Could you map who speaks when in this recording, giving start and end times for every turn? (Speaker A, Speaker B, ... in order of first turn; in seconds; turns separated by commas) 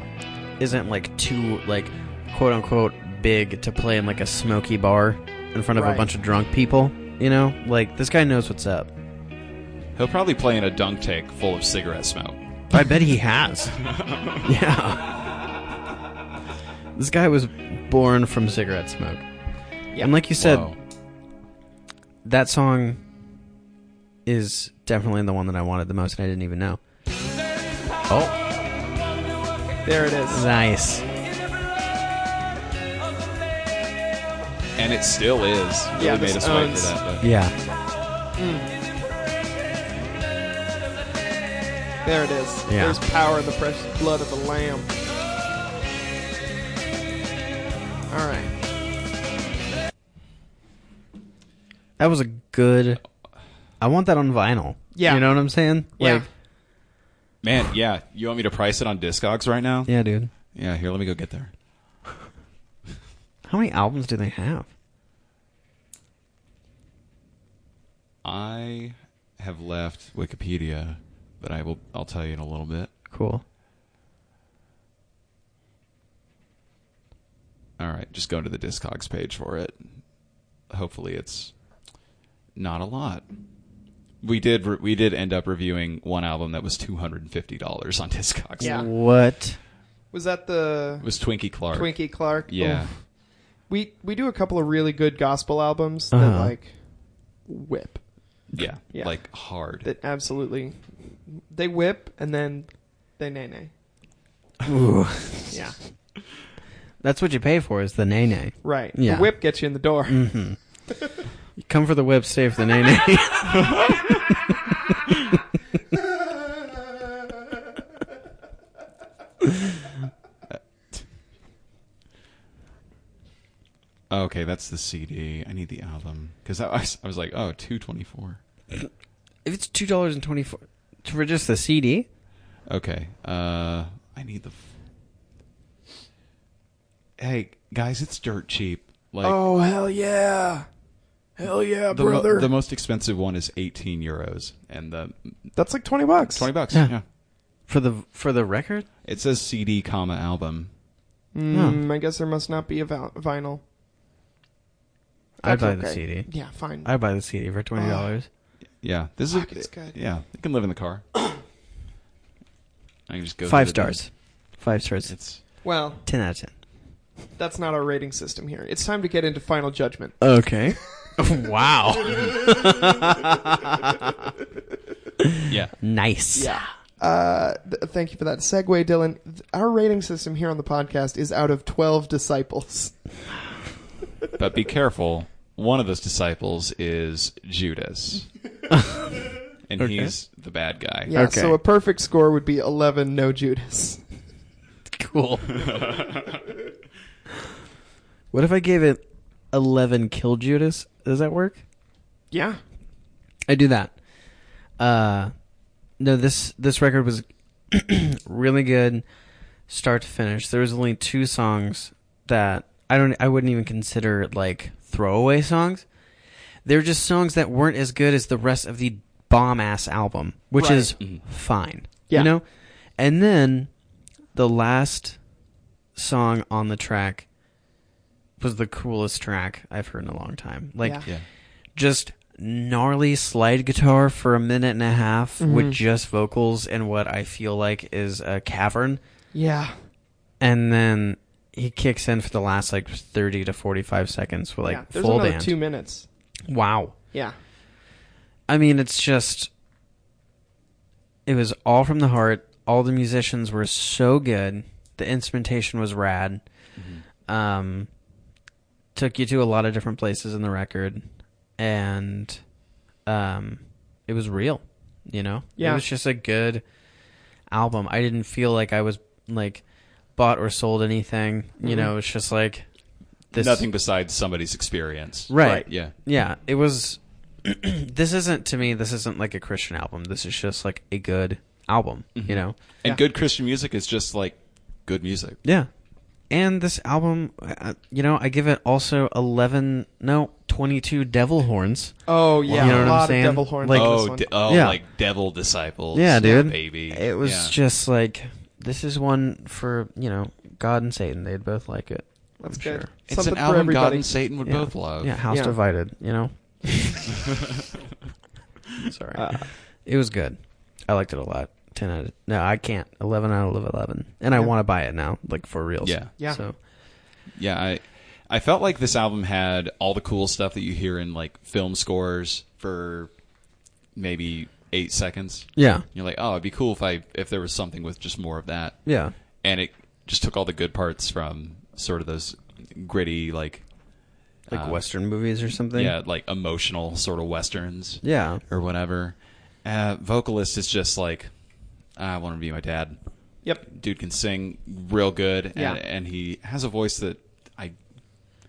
Speaker A: 0.6-8.9, Speaker B: 5.8-6.0, Speaker C: 9.9-12.4, Speaker A: 12.7-13.8, Speaker C: 13.8-14.5, Speaker A: 14.4-15.2, Speaker A: 16.9-19.2, Speaker A: 20.0-20.7, Speaker C: 20.4-20.8, Speaker A: 22.2-23.0, Speaker A: 24.2-26.8, Speaker A: 28.1-28.4, Speaker B: 29.8-30.4, Speaker A: 30.3-31.1, Speaker C: 34.8-37.2, Speaker B: 36.0-36.9, Speaker A: 37.2-37.6, Speaker B: 38.4-38.7, Speaker B: 42.0-44.9, Speaker A: 42.7-43.0, Speaker B: 48.1-48.5, Speaker A: 52.0-53.0, Speaker A: 53.8-56.2, Speaker B: 54.9-55.3, Speaker B: 56.0-56.2, Speaker C: 57.4-59.9, Speaker A: 59.9-60.3, Speaker C: 60.5-61.5, Speaker A: 63.5-64.7, Speaker C: 68.2-72.9, Speaker A: 73.1-73.4, Speaker C: 77.8-79.8, Speaker C: 80.7-81.5, Speaker C: 82.5-83.2, Speaker C: 84.2-88.8, Speaker A: 88.6-89.6, Speaker B: 88.6-88.9, Speaker B: 90.1-98.3, Speaker C: 91.0-92.9, Speaker A: 96.1-96.5, Speaker C: 98.5-99.9, Speaker B: 98.9-103.7, Speaker A: 104.6-105.6, Speaker B: 105.5-105.8, Speaker A: 107.0-109.5, Speaker B: 108.6-110.3, Speaker A: 110.1-110.6, Speaker A: 111.6-113.8, Speaker C: 113.6-114.1, Speaker C: 124.1-128.4, Speaker A: 129.4-132.1, Speaker C: 132.7-134.6, Speaker C: 137.2-139.4, Speaker B: 139.2-140.7, Speaker B: 141.3-142.5, Speaker C: 141.9-145.5, Speaker B: 145.5-146.5, Speaker C: 146.2-147.0, Speaker A: 146.7-147.0, Speaker A: 147.6-148.9, Speaker C: 149.0-150.7, Speaker B: 151.3-153.6, Speaker A: 151.5-151.8, Speaker A: 155.4-158.3, Speaker B: 155.4-156.9, Speaker B: 157.7-158.1, Speaker C: 158.8-161.0, Speaker B: 159.3-159.9, Speaker C: 163.1-164.0, Speaker A: 163.4-166.5, Speaker C: 165.1-165.4, Speaker B: 165.6-166.0, Speaker B: 167.3-170.3, Speaker A: 170.2-174.1, Speaker A: 175.2-176.6, Speaker C: 175.5-175.7, Speaker B: 176.3-183.3, Speaker C: 184.3-188.3, Speaker A: 188.7-189.1, Speaker C: 189.7-191.1, Speaker A: 189.8-190.1, Speaker B: 191.1-194.0, Speaker A: 191.1-191.6, Speaker A: 194.9-195.6, Speaker C: 195.5-196.4, Speaker A: 198.3-201.6, Speaker B: 202.3-202.6, Speaker A: 203.5-204.0, Speaker A: 204.8-205.3, Speaker A: 206.0-209.0, Speaker A: 209.7-215.8, Speaker A: 216.6-223.7, Speaker B: 220.6-220.9, Speaker A: 224.3-225.2, Speaker A: 225.9-227.3, Speaker A: 228.4-239.0, Speaker B: 235.4-235.8, Speaker B: 239.3-239.8, Speaker A: 240.4-245.5, Speaker B: 244.6-246.1, Speaker A: 246.5-247.0, Speaker A: 248.5-249.5, Speaker A: 251.2-256.4, Speaker C: 256.8-257.0, Speaker A: 257.3-257.9, Speaker A: 258.9-262.4, Speaker A: 263.0-266.6, Speaker B: 265.6-265.8, Speaker A: 267.5-269.6, Speaker A: 270.1-272.7, Speaker B: 271.6-271.9, Speaker A: 273.3-273.6, Speaker C: 273.3-275.9, Speaker A: 275.3-282.6, Speaker B: 275.4-275.7, Speaker C: 282.1-285.4, Speaker A: 285.4-285.7, Speaker A: 286.3-294.8, Speaker B: 292.1-294.3, Speaker C: 292.4-293.0, Speaker C: 293.7-297.5, Speaker A: 295.9-302.9, Speaker B: 296.2-296.5, Speaker B: 302.4-304.2, Speaker C: 303.1-305.2, Speaker A: 304.4-307.2, Speaker B: 305.3-305.6, Speaker A: 308.8-316.6, Speaker B: 309.1-309.5, Speaker C: 315.8-316.1, Speaker C: 317.3-323.1, Speaker C: 323.9-333.6, Speaker A: 325.6-325.9, Speaker A: 328.8-329.1, Speaker C: 334.4-334.8, Speaker A: 334.5-335.9, Speaker C: 335.7-341.3, Speaker A: 338.0-338.4, Speaker C: 341.9-343.0, Speaker C: 343.6-347.8